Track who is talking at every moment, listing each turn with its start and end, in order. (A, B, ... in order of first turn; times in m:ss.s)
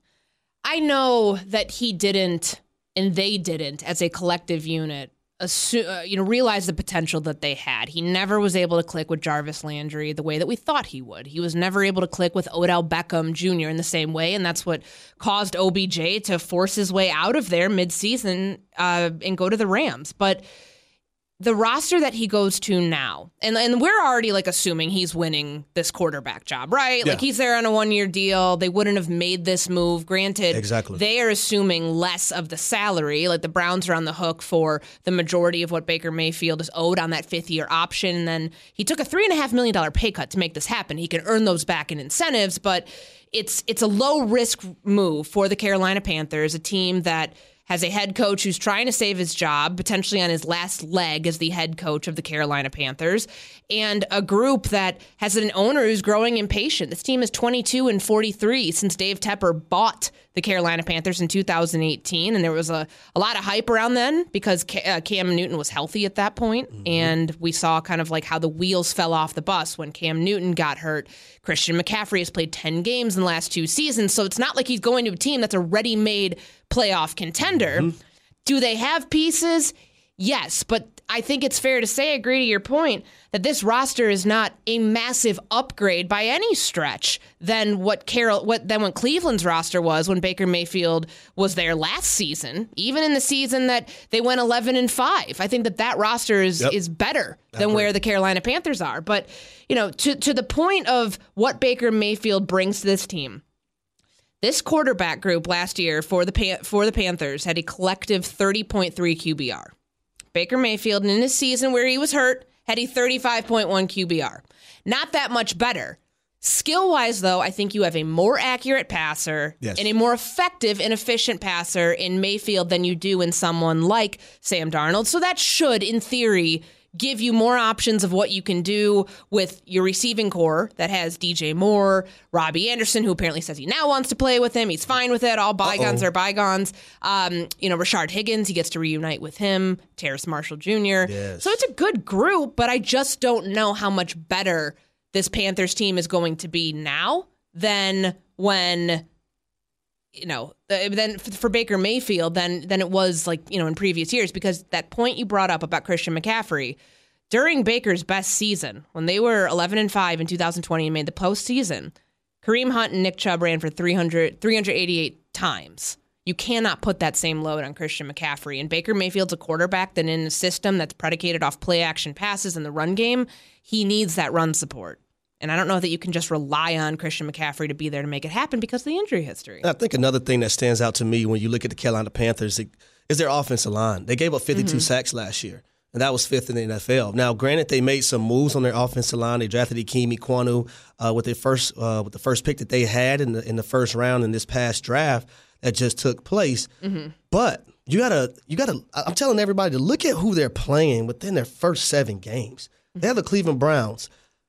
0:00.6-0:20.4 A
0:21.4-1:43.4 A
0:30.5-0:31.0 B
1:06.8-1:07.1 B
1:37.5-1:37.9 B
1:44.4-1:49.7 A
1:50.3-2:29.0 A
2:15.6-2:16.0 B
2:21.0-2:21.6 B
2:30.2-2:36.8 A
2:37.3-2:59.6 A
2:59.6-3:16.7 B
3:04.6-3:04.8 A
3:16.8-3:17.1 A
3:17.3-3:24.1 B